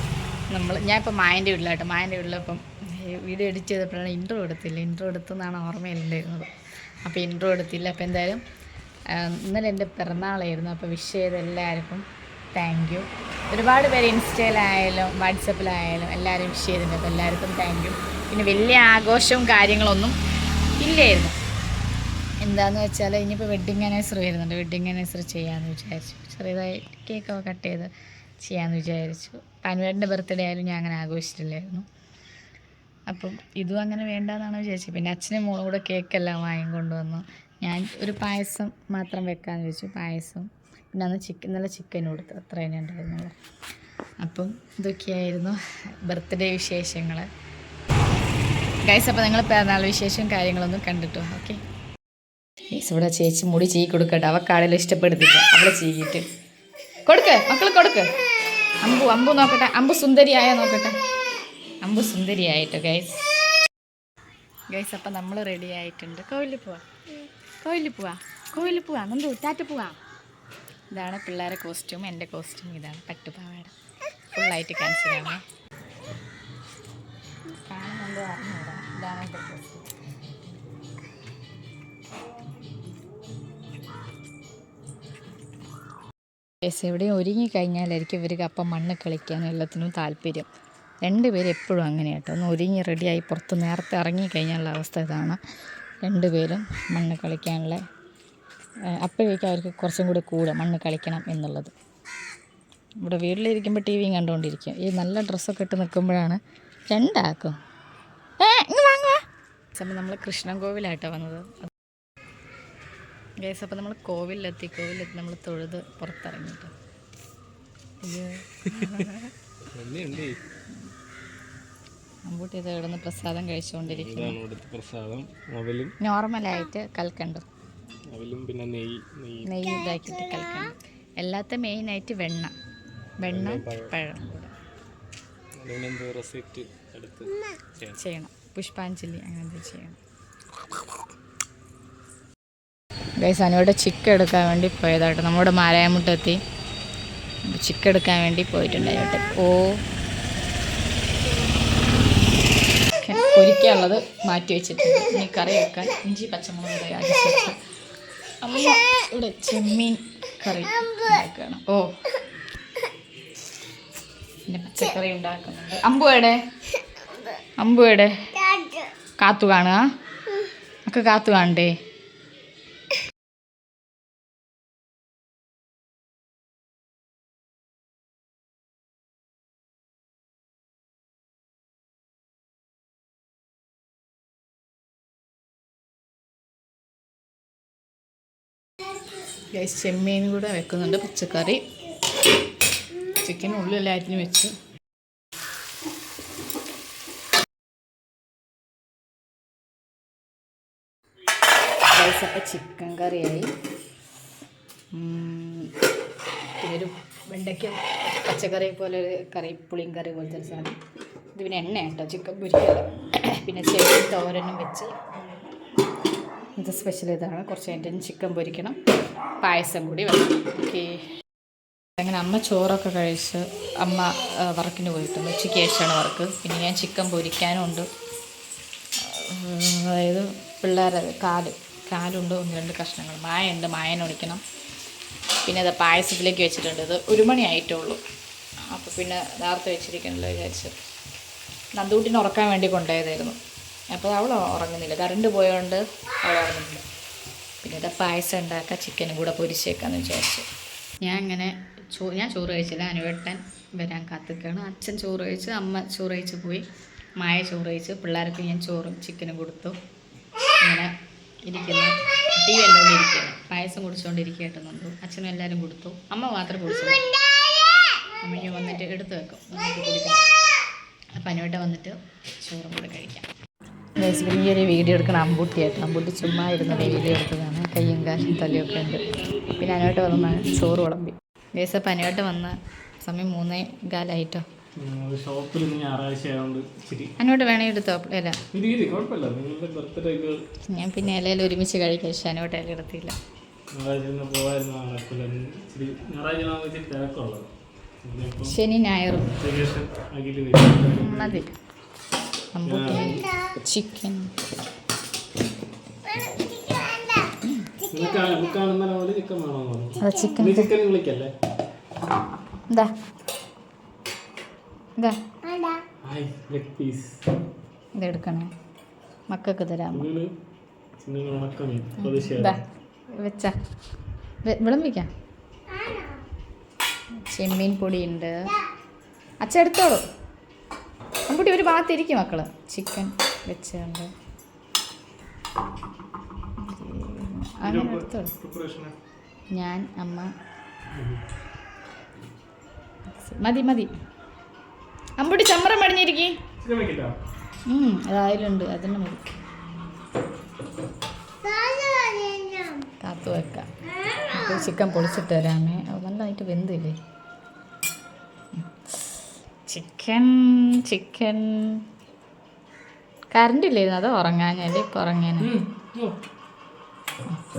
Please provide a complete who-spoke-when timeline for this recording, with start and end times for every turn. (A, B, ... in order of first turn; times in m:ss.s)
0:00.5-0:06.5 A
0:07.0-0:08.4 A
0:09.1-0:20.2 A
0:20.8-0:21.4 A
0:22.4-0:31.8 A
0:33.1-0:43.4 A
0:44.2-0:47.3 A
0:48.8-0:51.6 A
0:52.7-0:56.2 A
0:57.0-0:58.1 A
0:58.8-1:00.9 A
1:01.8-1:03.3 A
1:04.7-1:06.9 A
1:07.6-1:10.0 A
1:10.9-1:13.7 A
1:14.3-1:15.4 A
1:17.6-1:19.9 A
1:26.6-1:30.5 A
1:31.0-1:35.4 A
1:36.0-1:37.8 A
1:38.9-1:41.7 A
1:43.0-1:47.6 A
1:48.4-1:49.2 A
1:49.7-1:51.7 A
1:53.4-1:56.7 A
1:58.0-1:59.3 A
1:58.6-1:59.1 B
1:59.7-2:00.4 B
2:02.3-2:04.4 A
2:03.9-2:06.0 B
2:06.0-2:07.4 A
2:08.1-2:09.6 B
2:09.4-2:12.5 A
2:13.2-2:14.5 A
2:13.3-2:14.0 B
2:15.6-2:18.0 B
2:18.0-2:20.0 A
2:23.2-2:26.4 A
2:27.5-2:29.8 A
2:33.0-2:37.6 A
2:38.4-2:41.9 A
2:44.5-2:46.4 A
2:47.6-2:48.3 A
2:49.2-2:49.8 A
2:50.8-2:51.7 A
3:09.5-3:11.6 A
3:13.1-3:14.5 A
3:21.9-3:23.5 A
3:24.9-3:25.7 A
3:26.6-3:30.8 A
3:31.4-3:35.1 A
3:36.6-3:38.8 A
3:39.4-3:41.0 A
3:42.0-3:47.9 A
3:49.0-3:54.4 A
3:55.4-3:58.0 A
3:58.7-4:00.7 A
4:01.8-4:03.4 A
4:03.9-4:06.8 A
4:07.6-4:10.4 A
4:11.0-4:16.6 A
4:17.2-4:19.8 A
4:20.6-4:20.9 A
4:21.4-4:27.1 A
4:28.2-4:30.2 A
4:31.2-4:33.3 A
4:34.0-4:44.4 A
4:44.8-4:47.2 B
4:47.2-4:48.4 A
4:48.5-4:50.4 B
4:50.7-4:53.1 A
4:53.7-4:57.5 B
4:58.0-4:58.6 B
4:58.4-4:59.3 A
4:59.3-5:01.4 B
5:01.0-5:01.6 A
5:02.5-5:04.4 A
5:02.6-5:03.3 B
5:07.4-5:07.7 A
5:07.9-5:11.3 B
5:10.0-5:10.7 A
5:16.0-5:17.2 B
5:18.0-5:18.5 A
5:19.3-5:20.1 A
5:19.9-5:20.3 B
5:21.0-5:22.6 B
5:22.0-5:22.6 A
5:23.2-5:23.5 A
5:24.4-5:25.1 A
5:27.2-5:28.5 A
5:29.4-5:30.0 A
5:31.3-5:34.1 A
5:36.6-5:38.3 A
5:37.6-5:38.9 B
5:39.5-5:40.3 A
5:40.9-5:41.2 B
5:43.1-5:43.9 A
5:45.2-5:46.4 A
5:46.6-5:47.2 B
5:47.7-5:49.4 A
5:53.0-5:57.0 A
5:58.6-5:59.1 A
5:59.7-6:01.8 A
6:03.3-6:05.5 A
6:05.4-6:06.2 B